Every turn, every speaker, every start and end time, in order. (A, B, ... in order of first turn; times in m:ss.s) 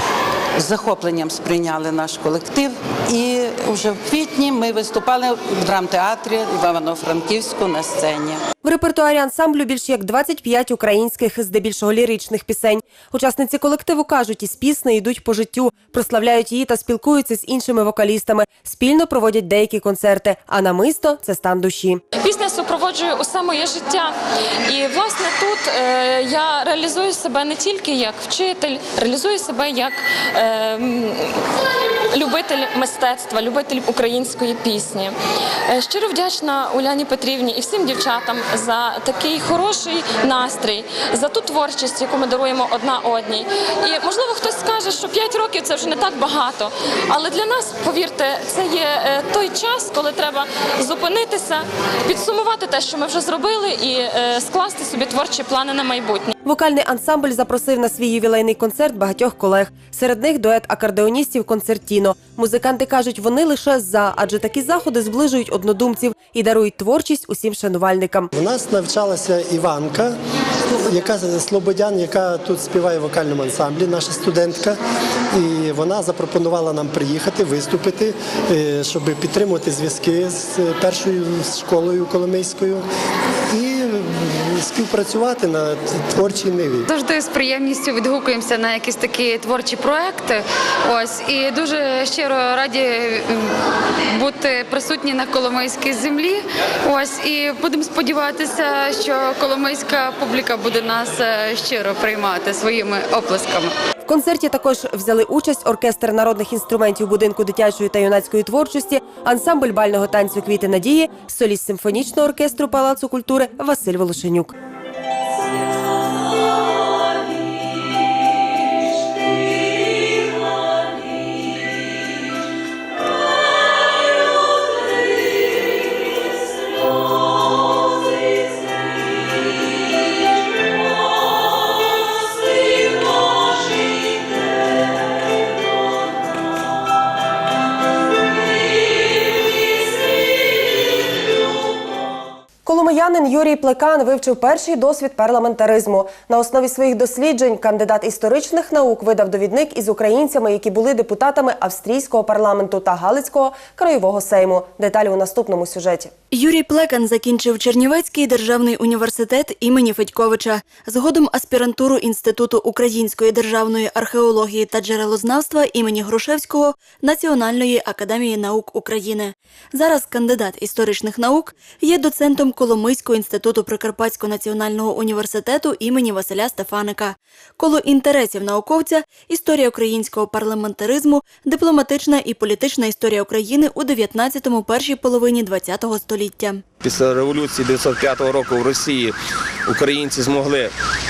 0:00.6-0:08.4 A
0:08.6-0:22.0 B
0:22.2-0:24.1 C
0:24.7-0:31.4 C
0:32.1-0:35.1 C
0:35.7-0:56.3 C
0:56.4-1:08.3 B
1:08.4-1:10.2 D
1:10.9-1:14.8 D
1:15.3-1:22.8 D
1:23.5-1:26.9 D
1:26.9-1:33.5 E
1:34.1-1:43.7 E
1:44.1-1:54.5 B
2:22.7-2:36.1 B
2:36.3-3:06.6 F
3:06.8-3:09.1 G
3:09.7-3:10.7 G